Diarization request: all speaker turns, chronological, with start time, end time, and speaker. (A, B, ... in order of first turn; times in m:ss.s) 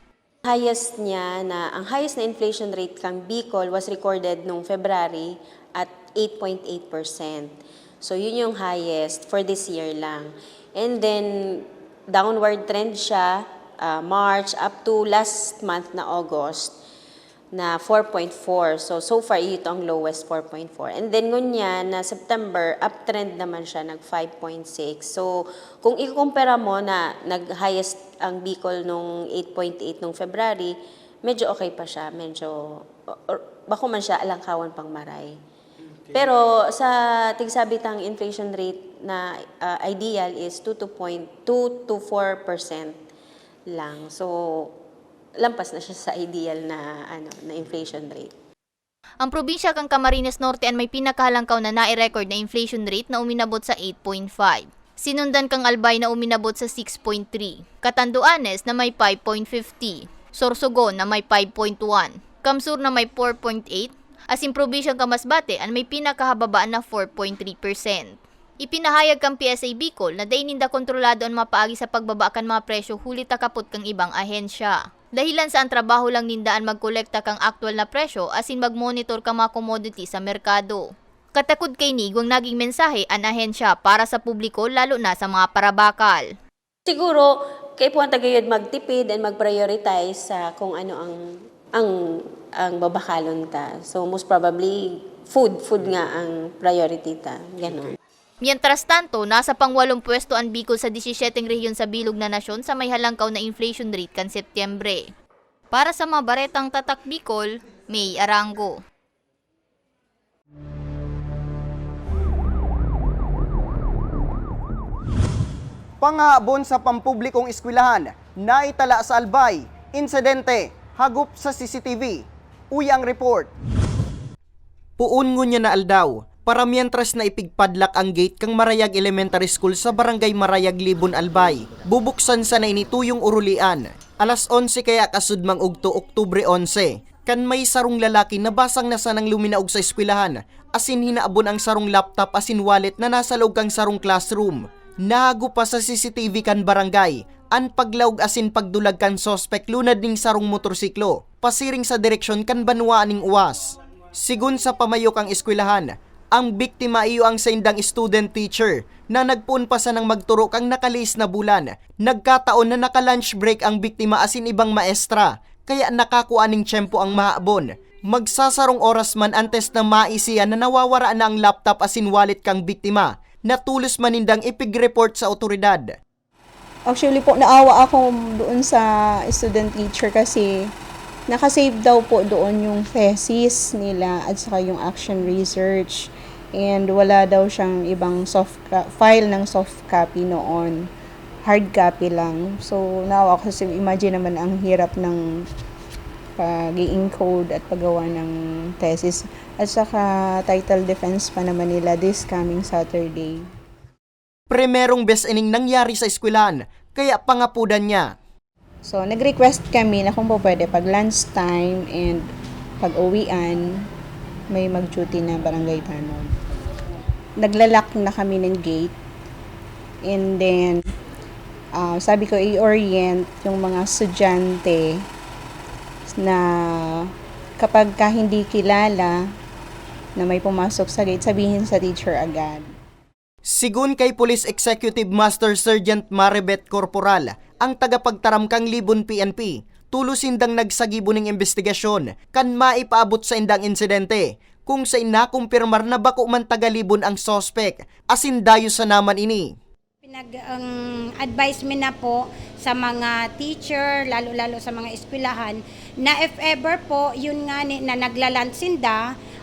0:00.4-0:16.8 A
0:17.5-0:35.4 A
0:36.1-0:43.0 A
0:43.7-0:44.8 A
0:45.4-0:48.3 A
0:49.2-1:26.3 B
1:26.9-1:38.0 A
1:38.4-1:45.1 B
1:45.7-1:48.8 B
1:56.0-2:03.5 C
2:05.0-2:56.0 C
2:56.9-3:00.7 D
3:01.3-3:10.9 D
3:11.4-3:15.2 D
3:16.4-3:23.5 D
3:24.5-3:28.2 C
3:28.8-3:32.3 D
3:32.8-3:33.9 D
3:34.5-3:36.3 D
3:37.4-3:38.9 D
3:40.1-3:40.8 D
3:41.8-3:44.8 D
3:46.1-3:46.4 D
3:47.0-3:49.2 D
3:50.2-3:52.7 D
3:53.4-4:09.5 C
4:10.0-4:19.0 E